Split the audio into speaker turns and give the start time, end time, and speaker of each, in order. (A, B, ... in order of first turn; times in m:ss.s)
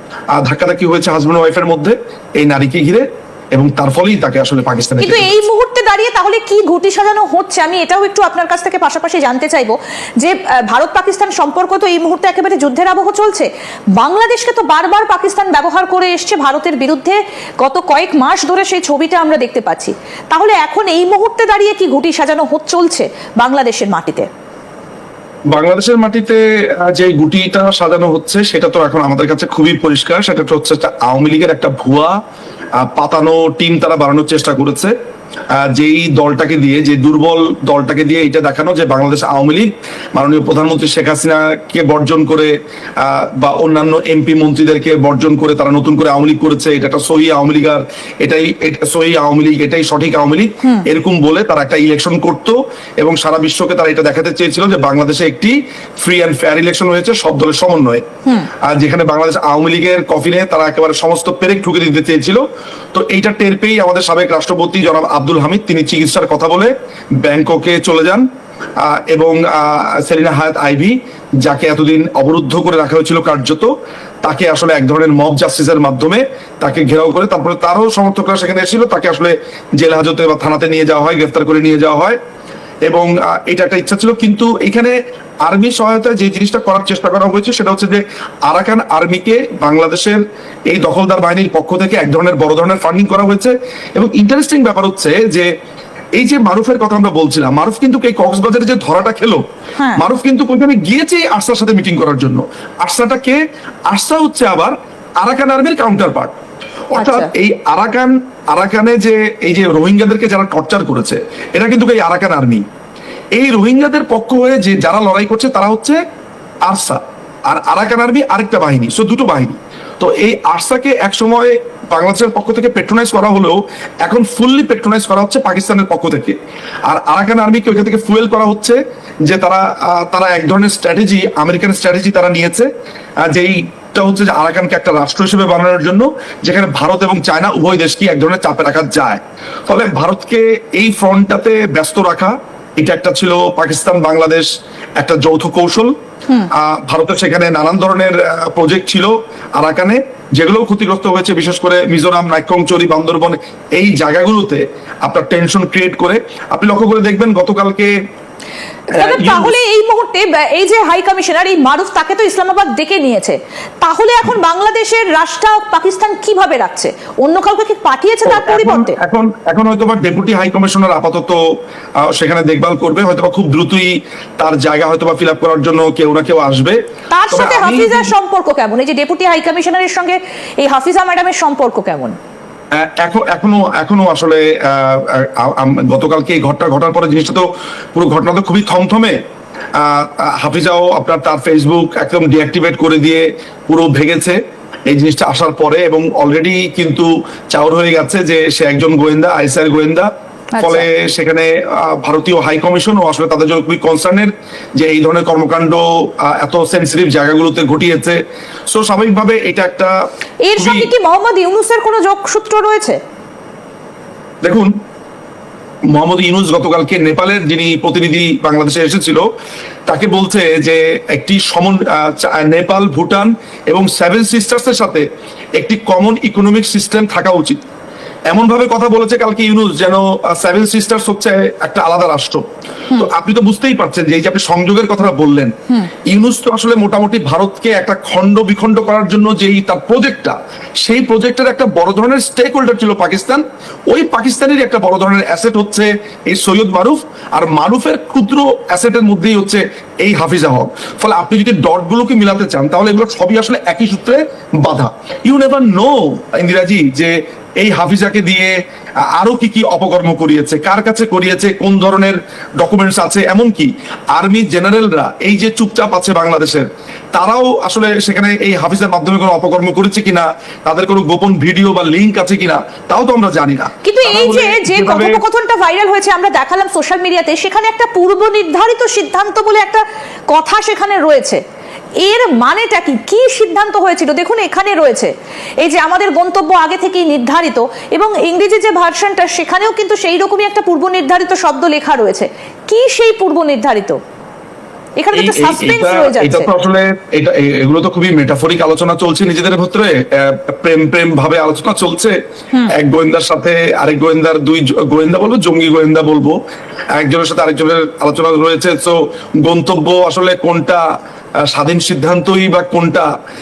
0:00.3-0:05.3 A
0:05.0-0:24.3 B
0:25.5-0:32.2 A
0:32.8-0:34.9 A
0:35.5-0:58.0 A
0:58.6-1:02.4 A
1:02.9-1:08.2 A
1:08.8-1:13.7 A
1:14.2-1:22.2 A
1:22.8-1:35.5 A
1:36.2-1:39.4 A
1:40.0-1:46.3 A
1:47.0-1:52.6 A
1:47.0-1:47.3 B
1:53.4-1:56.0 A
1:56.6-2:12.7 A
2:13.2-2:24.5 A
2:25.0-2:25.9 A
2:26.5-2:37.9 A
2:38.9-2:49.0 B
2:38.9-2:39.5 A
2:48.2-2:51.4 A
2:52.0-2:56.8 A
2:57.1-3:02.2 B
2:57.3-2:58.1 A
3:02.8-3:09.2 A
3:09.8-3:20.1 A
3:20.5-3:20.9 B
3:20.6-3:28.2 A
3:28.7-3:29.9 A
3:30.4-3:33.0 B
3:30.5-3:30.9 A
3:34.4-3:34.7 A
3:35.9-3:39.2 A
3:39.9-3:45.0 A
3:45.6-3:47.6 A
3:48.3-3:52.4 A
3:52.9-3:55.5 A
3:56.1-4:18.5 A
4:19.0-4:35.2 A
4:33.8-4:41.4 B
4:42.0-4:45.1 B
4:45.6-4:54.0 B
4:55.0-4:56.5 B
4:55.1-5:02.2 A
5:02.7-5:06.4 A
5:06.9-5:10.8 A
5:11.4-5:13.1 A